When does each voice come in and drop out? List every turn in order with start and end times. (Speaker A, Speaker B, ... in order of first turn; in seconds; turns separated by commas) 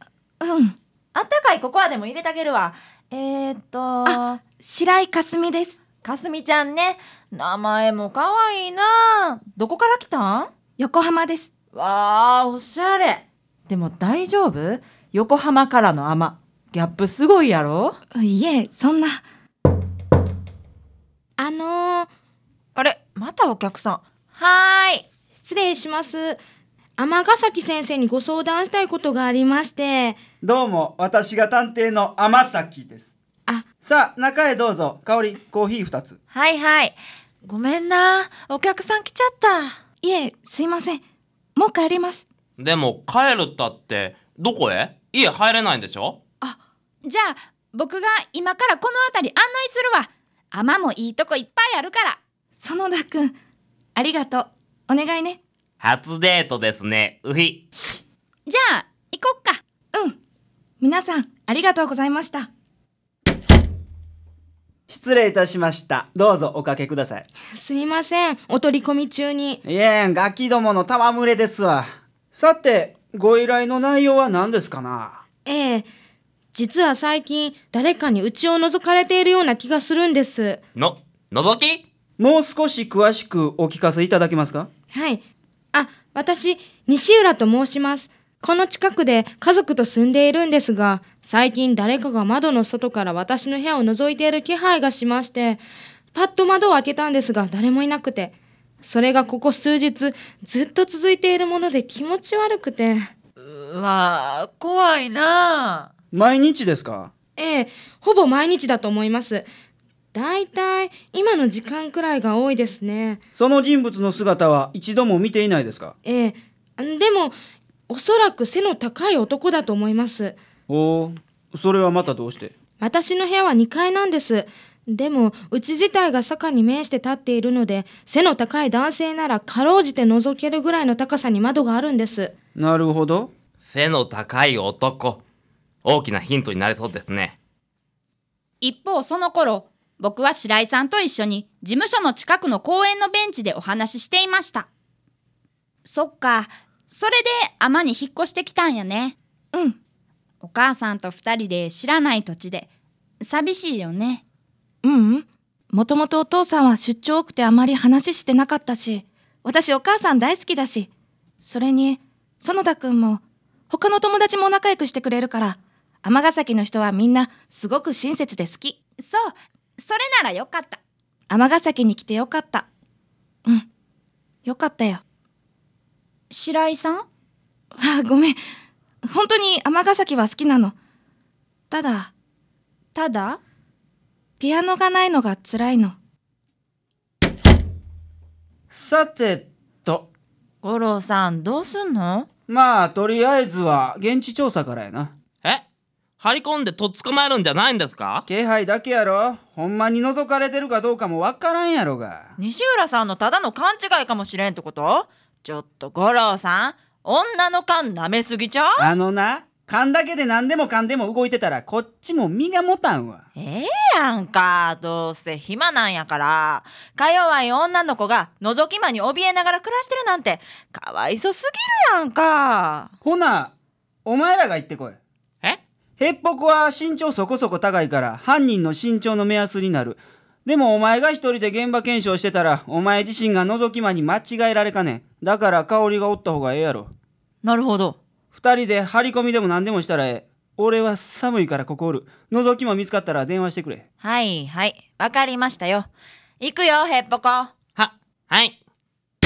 Speaker A: 0.4-0.8, Speaker B: 1.1-4.4, Speaker A: 4.0-5.8, Speaker B: 6.0-10.5, Speaker A: 10.8-11.5, Speaker B: 11.7-18.0, Speaker A: 18.1-19.2, Speaker C: 21.4-22.1, Speaker B: 22.8-25.1, Speaker C: 25.4-26.4, Speaker C: 27.0-30.2, Speaker D: 30.4-33.1, Speaker D: 33.7-36.2, Speaker B: 36.3-39.8, Speaker A: 40.0-41.0, Speaker A: 41.6-42.2, Speaker E: 42.6-46.2, Speaker F: 47.0-52.2, Speaker A: 52.6-53.4, Speaker A: 54.0-55.4, Speaker E: 55.8-57.6, Speaker F: 58.5-59.6, Speaker A: 60.8-62.5, Speaker D: 64.9-67.3, Speaker C: 67.5-69.6, Speaker D: 69.6-75.2, Speaker C: 75.5-75.9, Speaker C: 76.5-80.6, Speaker E: 80.8-81.8, Speaker D: 82.2-84.7, Speaker C: 84.9-85.2, Speaker C: 85.7-95.6, Speaker C: 96.2-103.1, Speaker B: 103.4-105.9, Speaker D: 106.1-107.1, Speaker C: 107.4-109.5, Speaker C: 110.1-113.2, Speaker D: 113.3-115.9, Speaker C: 116.0-117.3, Speaker C: 117.9-120.4, Speaker D: 120.7-122.5, Speaker C: 122.8-132.3, Speaker D: 132.6-133.3, Speaker E: 133.7-135.2, Speaker E: 135.8-137.4, Speaker F: 138.6-144.7, Speaker F: 145.8-149.2, Speaker F: 150.4-152.7, Speaker F: 153.2-154.2, Speaker A: 154.8-160.9, Speaker A: 161.4-168.8, Speaker F: 169.0-170.8, Speaker A: 171.3-172.7, Speaker A: 174.4-175.0, Speaker F: 176.3-177.1, Speaker A: 177.8-178.4, Speaker A: 179.1-180.8, Speaker A: 181.7-182.1, Speaker F: 182.9-183.4, Speaker A: 184.4-186.0, Speaker D: 188.7-190.1, Speaker B: 190.6-192.3, Speaker D: 192.5-195.1, Speaker E: 196.2-198.2, Speaker D: 198.3-202.3, Speaker B: 202.4-208.9, Speaker D: 208.8-213.3, Speaker B: 213.4-222.9, Speaker D: 223.0-223.5, Speaker D: 224.1-225.0, Speaker D: 226.0-236.9, Speaker B: 237.4-238.0, Speaker D: 238.3-243.8, Speaker B: 244.0-245.9, Speaker B: 246.4-247.5, Speaker E: 247.8-248.6